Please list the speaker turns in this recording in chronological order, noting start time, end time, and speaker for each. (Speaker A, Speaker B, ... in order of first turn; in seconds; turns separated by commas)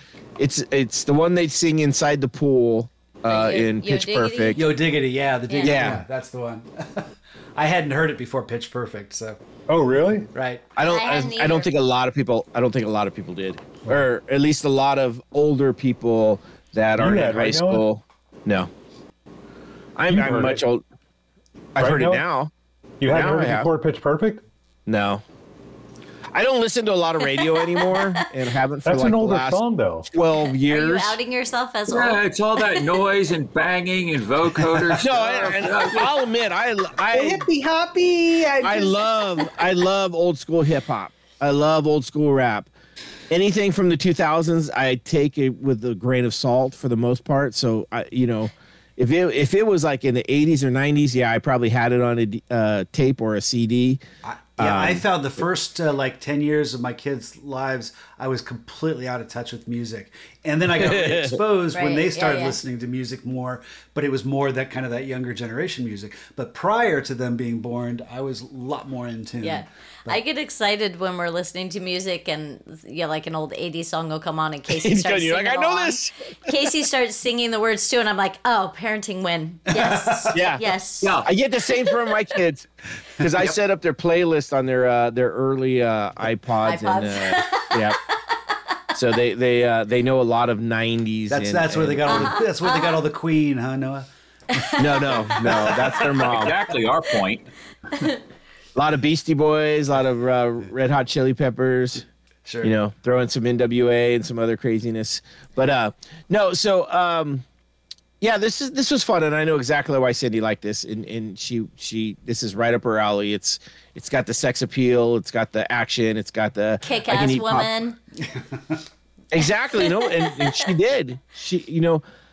Speaker A: 0.4-4.6, Speaker B: 3.3-4.8, Speaker C: 4.5-9.4, Speaker B: 5.5-5.8, Speaker A: 5.6-6.0, Speaker D: 9.7-10.3, Speaker C: 10.3-10.7, Speaker A: 10.8-18.7, Speaker B: 10.8-11.7, Speaker D: 17.0-17.8, Speaker A: 20.0-20.8, Speaker D: 20.1-20.6, Speaker A: 21.7-22.5, Speaker D: 21.8-22.2, Speaker D: 23.0-24.4, Speaker A: 23.1-23.7, Speaker A: 24.9-25.2, Speaker A: 26.3-31.2, Speaker B: 27.2-28.2, Speaker D: 28.8-30.1, Speaker B: 30.5-32.2, Speaker E: 31.9-36.1, Speaker A: 35.0-37.5, Speaker F: 37.1-39.1, Speaker A: 38.6-42.7, Speaker A: 43.3-54.0, Speaker C: 54.2-70.2, Speaker A: 54.6-55.0, Speaker A: 60.8-61.4, Speaker B: 61.7-62.5, Speaker B: 69.4-81.3, Speaker A: 74.7-76.1, Speaker C: 79.7-80.4, Speaker A: 80.3-80.6, Speaker E: 81.0-81.3, Speaker A: 81.2-82.7, Speaker A: 83.2-88.0, Speaker B: 86.6-87.9, Speaker A: 88.9-92.4, Speaker C: 91.3-96.5, Speaker B: 92.1-93.0, Speaker B: 94.5-95.3, Speaker A: 94.8-96.5, Speaker E: 96.2-97.5, Speaker A: 98.8-102.0, Speaker C: 102.4-102.7, Speaker A: 102.6-107.4, Speaker A: 108.2-117.8, Speaker B: 116.8-118.0, Speaker C: 118.2-118.8, Speaker A: 119.3-122.0, Speaker B: 119.7-120.7